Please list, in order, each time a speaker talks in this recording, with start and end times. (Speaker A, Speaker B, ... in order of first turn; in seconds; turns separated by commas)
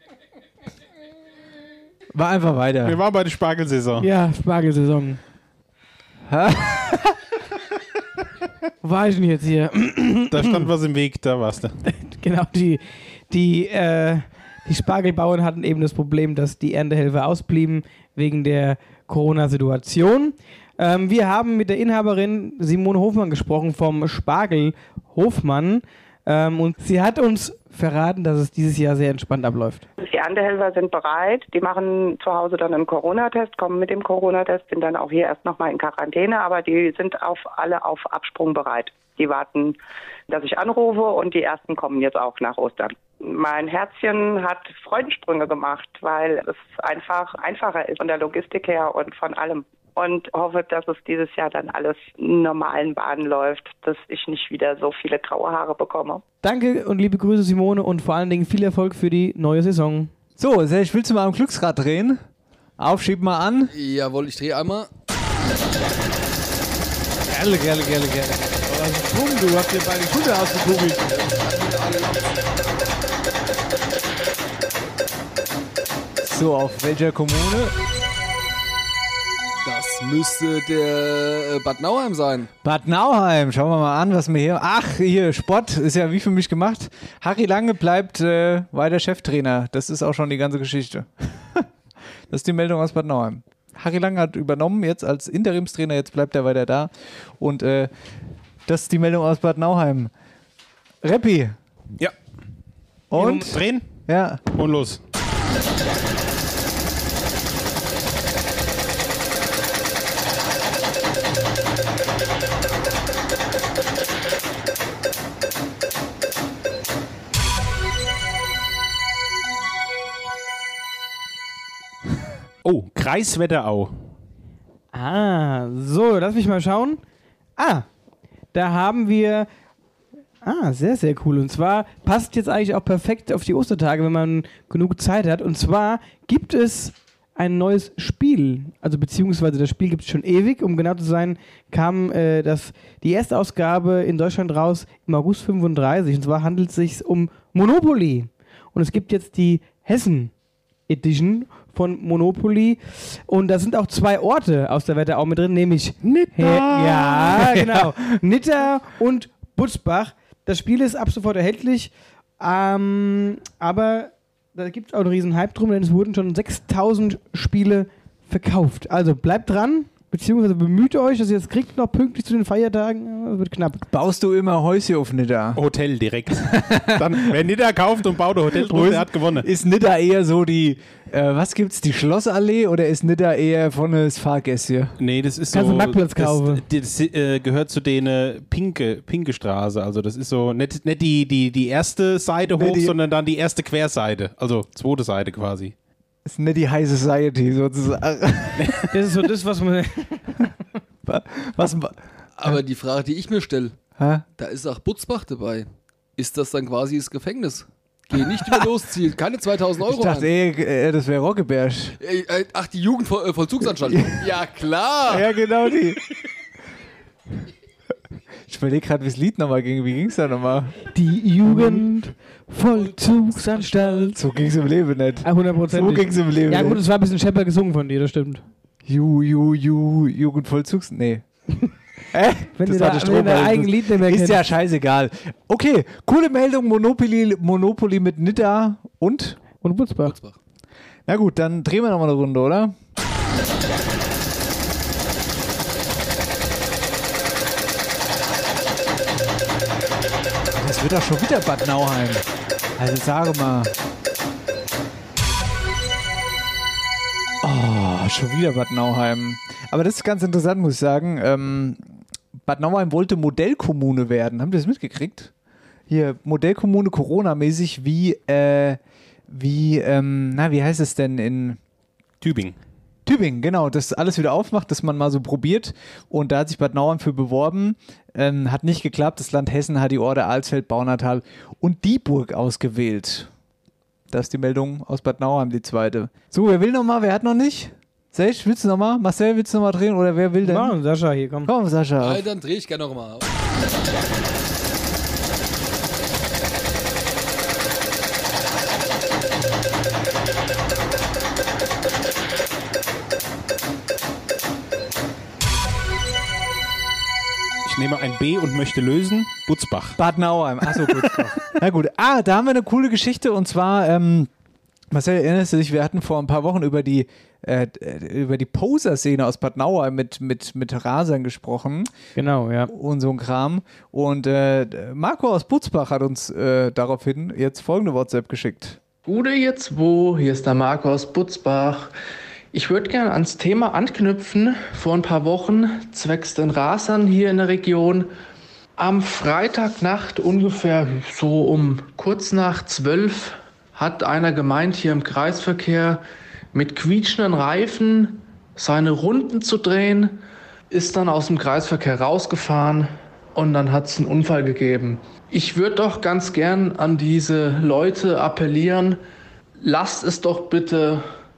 Speaker A: 2.1-3.0, Speaker B: 2.8-4.1, Speaker C: 4.0-5.2, Speaker A: 6.3-7.2, Speaker C: 8.8-10.5, Speaker B: 10.3-11.7, Speaker C: 11.8-29.9, Speaker D: 30.0-39.8, Speaker D: 40.3-56.2, Speaker C: 56.4-60.1, Speaker A: 60.4-62.2, Speaker A: 62.8-63.7, Speaker E: 63.7-64.9, Speaker C: 67.3-71.0, Speaker A: 67.7-68.4, Speaker E: 70.9-72.6, Speaker A: 76.2-77.7, Speaker E: 79.6-82.5, Speaker A: 82.6-91.7, Speaker A: 92.3-97.9, Speaker A: 98.7-100.1, Speaker A: 101.0-101.6, Speaker A: 103.1-104.4, Speaker C: 103.1-103.5, Speaker B: 103.5-103.8, Speaker B: 104.5-105.0, Speaker B: 122.6-124.1, Speaker C: 124.9-127.0, Speaker C: 127.6-127.8, Speaker C: 128.5-129.5, Speaker C: 130.4-150.3, Speaker C: 150.9-173.8, Speaker A: 156.0-158.1, Speaker A: 173.9-175.6, Speaker B: 175.6-179.5, Speaker A: 176.5-177.2, Speaker A: 178.5-185.0, Speaker B: 185.0-195.7, Speaker C: 185.5-186.6, Speaker A: 192.5-193.0, Speaker A: 196.2-198.8, Speaker C: 198.9-200.4, Speaker A: 201.0-202.6, Speaker E: 202.4-203.7, Speaker A: 204.0-204.2, Speaker E: 204.4-210.3, Speaker A: 209.9-211.9, Speaker E: 212.0-215.3, Speaker A: 215.1-216.0, Speaker A: 218.5-220.8, Speaker C: 220.9-224.2, Speaker A: 221.4-221.9, Speaker A: 222.7-223.4, Speaker A: 224.1-226.8, Speaker C: 225.2-228.4, Speaker A: 228.8-231.2, Speaker A: 232.1-239.4, Speaker C: 232.5-234.4, Speaker C: 239.6-240.2, Speaker E: 240.0-240.4, Speaker A: 241.1-242.7, Speaker A: 250.5-253.7, Speaker A: 257.4-265.3, Speaker A: 265.9-271.6, Speaker B: 272.2-272.6, Speaker A: 273.1-283.3, Speaker A: 284.1-290.8, Speaker C: 290.4-291.5, Speaker A: 291.4-292.2, Speaker E: 292.0-293.2, Speaker B: 307.6-310.0, Speaker A: 310.0-314.3, Speaker A: 314.9-321.9, Speaker C: 322.1-322.7, Speaker A: 322.7-328.8, Speaker F: 329.0-331.9, Speaker F: 332.5-338.1, Speaker F: 338.8-350.2, Speaker F: 350.7-359.0, Speaker F: 359.6-361.0